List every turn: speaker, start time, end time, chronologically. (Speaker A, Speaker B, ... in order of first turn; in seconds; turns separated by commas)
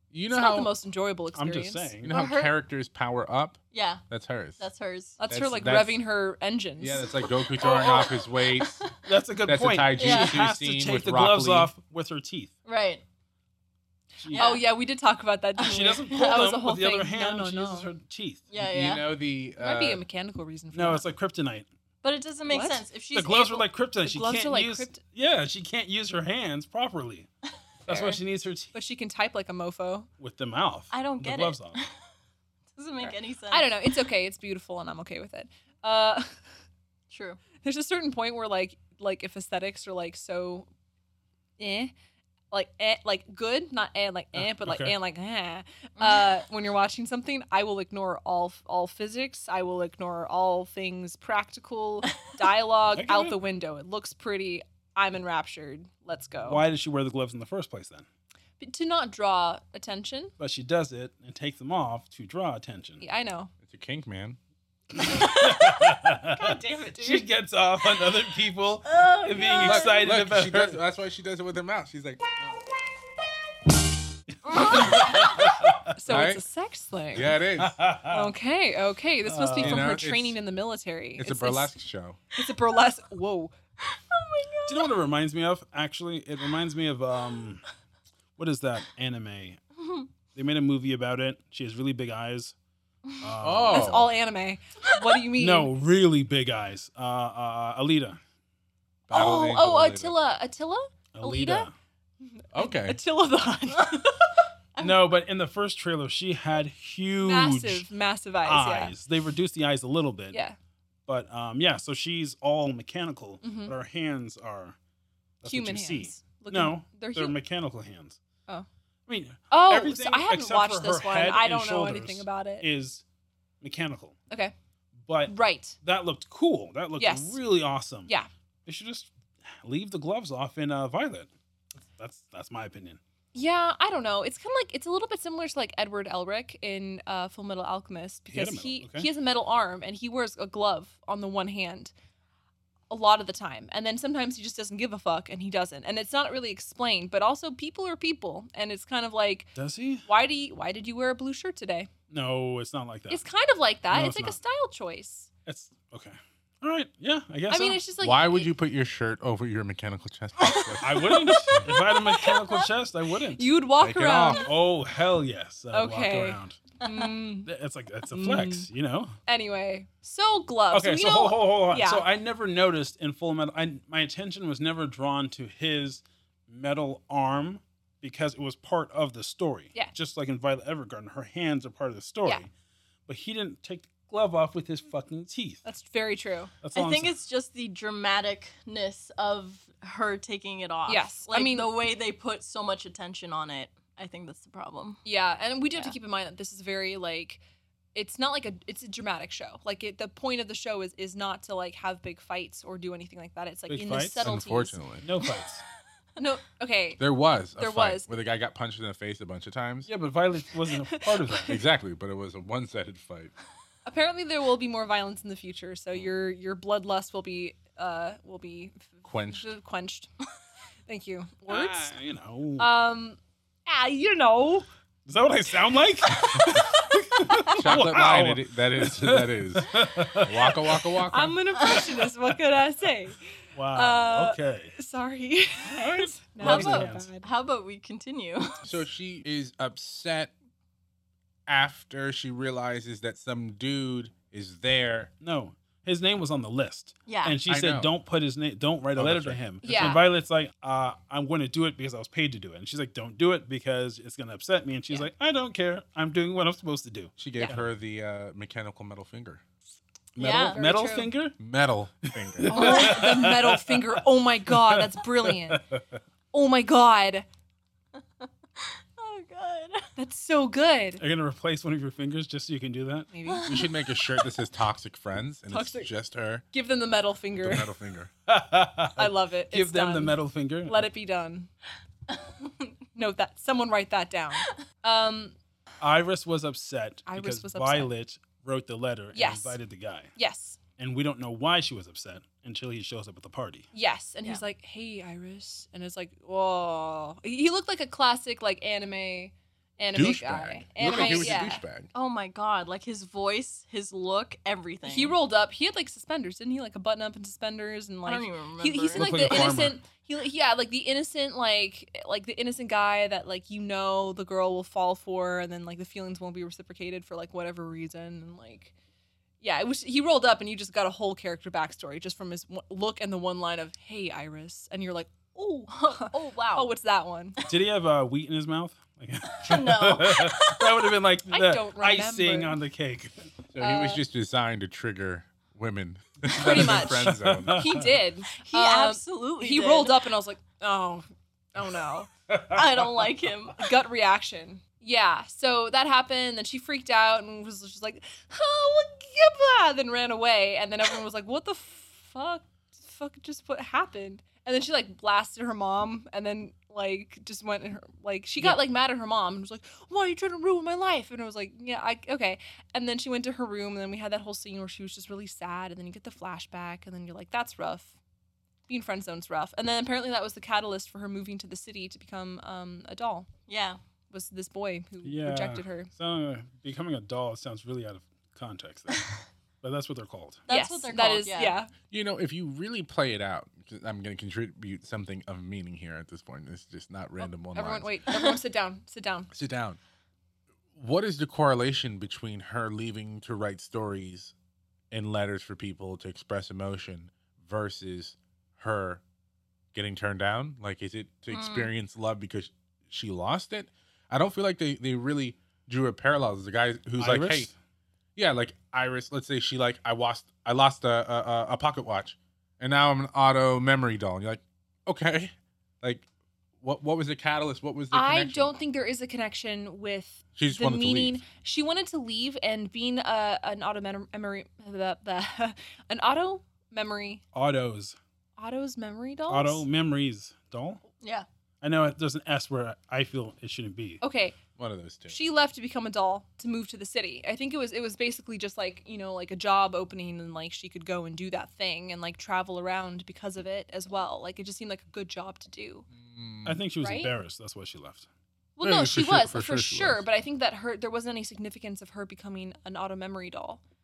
Speaker A: 0.1-0.7, Speaker B: 0.3-1.9, Speaker C: 1.4-2.1, Speaker A: 2.0-4.6, Speaker D: 2.1-2.5, Speaker D: 3.7-4.0, Speaker D: 4.6-5.2, Speaker B: 5.2-7.1, Speaker A: 5.3-6.0, Speaker A: 6.8-8.8, Speaker D: 7.6-9.0, Speaker C: 9.1-12.5, Speaker A: 9.5-11.7, Speaker D: 10.0-10.4, Speaker D: 12.7-13.0, Speaker C: 14.2-14.5, Speaker D: 14.3-14.6, Speaker B: 14.3-17.9, Speaker C: 15.6-18.4, Speaker D: 16.1-16.4, Speaker D: 18.5-19.1, Speaker A: 18.6-20.0, Speaker B: 19.6-21.1, Speaker C: 20.7-21.7, Speaker D: 22.0-23.7, Speaker B: 22.5-22.9, Speaker C: 23.1-27.3, Speaker B: 24.0-25.0, Speaker C: 27.9-28.7, Speaker B: 27.9-28.2, Speaker B: 28.7-30.1, Speaker C: 30.2-31.8, Speaker D: 30.9-31.9, Speaker D: 32.8-33.7, Speaker B: 33.0-36.3, Speaker D: 37.1-37.4, Speaker B: 37.6-40.7, Speaker B: 41.6-41.9, Speaker B: 42.5-56.6, Speaker C: 44.4-45.0, Speaker D: 46.0-46.4, Speaker C: 52.9-53.4, Speaker C: 56.5-58.1, Speaker B: 58.6-60.3, Speaker C: 60.4-63.0, Speaker B: 63.0-63.5, Speaker A: 63.6-64.4, Speaker C: 65.0-70.8, Speaker B: 66.3-67.2, Speaker D: 68.8-70.0, Speaker A: 69.6-72.4, Speaker C: 74.5-75.8, Speaker D: 74.5-75.2, Speaker B: 75.9-77.3, Speaker A: 76.1-76.4, Speaker A: 77.1-77.8, Speaker C: 77.6-78.3, Speaker B: 78.1-81.7, Speaker C: 79.3-79.9, Speaker A: 79.6-80.4, Speaker A: 81.2-82.2, Speaker B: 82.3-83.5, Speaker D: 83.9-84.9, Speaker C: 84.7-87.6, Speaker C: 88.4-89.6, Speaker D: 89.8-90.1, Speaker C: 90.3-92.5, Speaker C: 93.2-93.9, Speaker A: 93.4-94.1, Speaker B: 93.7-95.7, Speaker C: 95.4-98.2, Speaker A: 99.1-100.2, Speaker B: 99.1-101.7, Speaker C: 101.2-101.7, Speaker B: 102.2-104.3, Speaker A: 102.5-103.0, Speaker D: 103.8-104.1, Speaker D: 104.8-105.1, Speaker C: 104.8-107.9, Speaker B: 107.2-109.0, Speaker C: 108.5-110.4, Speaker C: 111.1-114.8, Speaker B: 113.4-113.8, Speaker C: 115.4-118.2, Speaker B: 115.4-117.4, Speaker C: 119.1-123.0, Speaker B: 119.5-122.7, Speaker C: 123.6-124.2, Speaker C: 125.0-128.1, Speaker B: 125.3-125.8, Speaker B: 127.0-127.4, Speaker C: 128.7-131.3, Speaker C: 131.9-133.0, Speaker B: 133.3-141.9, Speaker C: 138.3-139.1, Speaker B: 142.9-149.5, Speaker C: 149.6-150.1, Speaker B: 150.1-151.9, Speaker C: 152.1-153.2, Speaker B: 153.1-155.3, Speaker C: 153.9-154.4, Speaker C: 155.5-157.8, Speaker B: 157.5-158.5, Speaker A: 158.0-161.2, Speaker B: 160.5-162.4, Speaker C: 160.8-163.5, Speaker B: 163.4-164.5, Speaker A: 163.8-164.5, Speaker C: 164.4-166.6, Speaker B: 165.7-167.5, Speaker C: 167.5-169.1, Speaker B: 168.1-168.7, Speaker B: 169.3-172.1, Speaker C: 170.7-182.5, Speaker C: 183.1-185.6, Speaker B: 185.7-186.5, Speaker C: 186.6-187.2, Speaker D: 186.7-195.0, Speaker B: 190.9-191.7, Speaker B: 195.1-197.4, Speaker B: 197.9-204.8, Speaker C: 203.7-204.3, Speaker A: 204.2-205.1, Speaker C: 205.0-205.6, Speaker B: 206.2-207.0, Speaker A: 207.0-209.9, Speaker B: 207.6-208.1, Speaker C: 209.9-211.6, Speaker B: 210.9-211.5, Speaker A: 211.5-213.3, Speaker B: 213.9-220.1, Speaker A: 219.1-219.5, Speaker B: 220.9-221.9, Speaker C: 221.5-222.7, Speaker B: 222.6-224.7, Speaker C: 225.1-230.8, Speaker A: 227.6-231.4, Speaker B: 231.1-233.2, Speaker D: 231.6-231.9, Speaker C: 233.6-234.7, Speaker B: 233.7-237.3, Speaker C: 235.7-237.1, Speaker D: 236.4-238.7, Speaker A: 238.6-240.3, Speaker A: 241.5-245.1, Speaker C: 245.2-257.6, Speaker D: 247.1-247.4, Speaker A: 247.5-247.9, Speaker A: 248.9-249.8, Speaker B: 249.6-250.0, Speaker A: 257.2-259.4, Speaker C: 260.2-261.4, Speaker D: 260.2-260.6, Speaker B: 260.2-261.1, Speaker A: 261.4-262.9, Speaker C: 262.2-265.8, Speaker B: 262.5-265.6, Speaker D: 262.6-262.9, Speaker B: 266.3-267.3, Speaker D: 268.2-269.9, Speaker B: 270.0-271.0, Speaker C: 271.0-273.1, Speaker B: 273.1-273.5, Speaker D: 273.3-273.7, Speaker A: 273.5-276.4, Speaker B: 275.5-275.9, Speaker B: 276.5-277.7, Speaker A: 277.4-278.1, Speaker C: 278.3-280.9, Speaker B: 279.0-281.5, Speaker B: 282.9-285.4, Speaker C: 285.8-290.1, Speaker B: 287.1-287.9, Speaker B: 289.1-289.6, Speaker B: 290.2-290.6, Speaker C: 290.8-293.7, Speaker B: 293.7-301.6, Speaker A: 299.9-301.9, Speaker C: 300.8-301.5, Speaker D: 301.9-305.2, Speaker B: 304.9-318.7, Speaker D: 308.1-309.6, Speaker C: 308.9-309.8, Speaker B: 319.4-327.4, Speaker D: 325.7-326.7, Speaker C: 327.5-333.3, Speaker D: 329.4-330.9, Speaker B: 331.3-332.6, Speaker A: 333.5-337.7, Speaker B: 333.6-334.0, Speaker B: 336.3-342.1, Speaker C: 336.3-337.9, Speaker D: 338.5-340.0, Speaker C: 342.3-343.1, Speaker D: 342.5-343.7, Speaker B: 343.6-368.0, Speaker B: 368.7-373.3, Speaker D: 373.5-373.8, Speaker B: 374.1-375.9, Speaker C: 375.0-380.4, Speaker D: 380.5-381.6, Speaker B: 380.5-381.7, Speaker A: 381.9-387.9, Speaker B: 387.2-389.3, Speaker A: 389.3-389.8, Speaker A: 390.8-394.3, Speaker A: 394.9-399.0, Speaker A: 399.7-407.5, Speaker D: 401.3-401.7, Speaker C: 407.0-407.5, Speaker A: 408.2-416.1, Speaker A: 416.6-418.6, Speaker B: 417.9-427.2, Speaker A: 420.4-421.2, Speaker C: 427.3-428.0, Speaker B: 428.4-429.6, Speaker C: 429.3-430.8, Speaker D: 431.0-431.3, Speaker C: 431.6-434.0, Speaker B: 434.0-434.4, Speaker A: 434.6-435.2, Speaker B: 435.1-445.9, Speaker A: 445.9-446.6, Speaker C: 446.4-448.1, Speaker B: 446.8-447.1, Speaker B: 448.6-453.6, Speaker A: 448.6-450.1